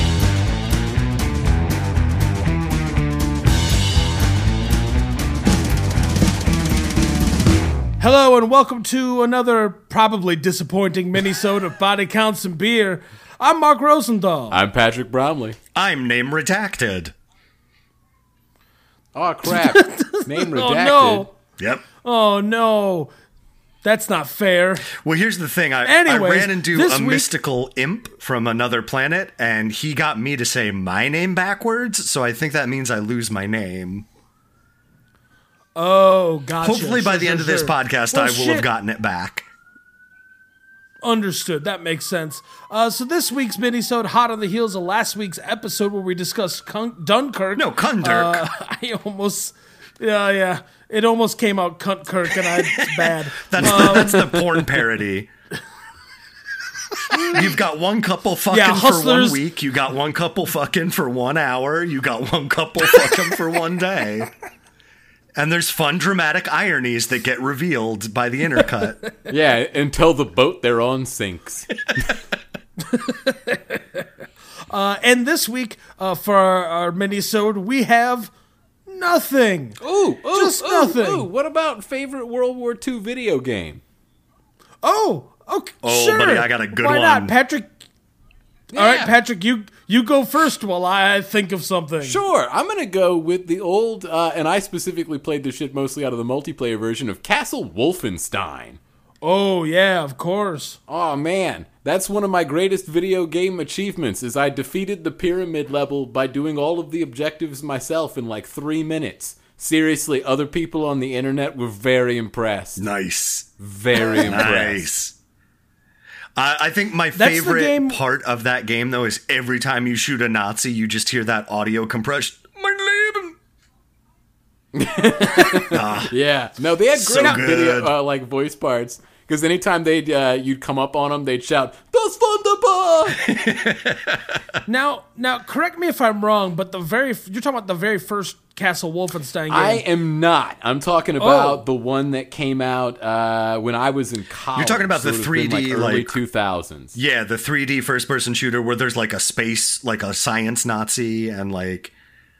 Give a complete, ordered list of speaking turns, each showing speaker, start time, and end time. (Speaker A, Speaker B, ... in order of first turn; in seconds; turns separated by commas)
Speaker A: 8.0-14.6, Speaker B: 14.5-15.6, Speaker C: 15.7-17.1, Speaker B: 19.1-21.3, Speaker A: 19.4-21.3, Speaker C: 21.6-21.8, Speaker A: 22.0-23.1, Speaker A: 23.8-24.9, Speaker C: 24.9-34.0, Speaker A: 25.8-27.3, Speaker A: 35.8-38.7, Speaker C: 36.6-39.5, Speaker A: 41.0-54.5, Speaker C: 47.5-48.4, Speaker C: 52.5-52.8, Speaker C: 53.5-55.3, Speaker A: 57.1-57.4, Speaker C: 57.3-64.3, Speaker A: 58.5-59.4, Speaker C: 65.4-69.0, Speaker B: 69.3-72.2, Speaker A: 72.9-74.0, Speaker A: 74.7-78.3, Speaker A: 78.9-79.8, Speaker B: 79.8-83.8, Speaker A: 80.3-81.3, Speaker A: 84.8-87.7, Speaker C: 85.8-87.3, Speaker B: 88.7-89.1, Speaker A: 88.7-92.2, Speaker B: 92.0-98.8, Speaker A: 99.2-100.8, Speaker B: 100.9-112.8, Speaker C: 112.8-113.5, Speaker B: 113.6-114.9, Speaker C: 114.2-115.1, Speaker C: 116.3-123.3, Speaker A: 117.1-118.0, Speaker B: 124.7-133.3, Speaker C: 125.7-126.1, Speaker C: 126.9-127.9, Speaker C: 133.2-134.2, Speaker A: 134.7-139.8, Speaker B: 139.5-147.0, Speaker A: 141.2-141.6, Speaker C: 144.5-146.2, Speaker C: 146.9-151.9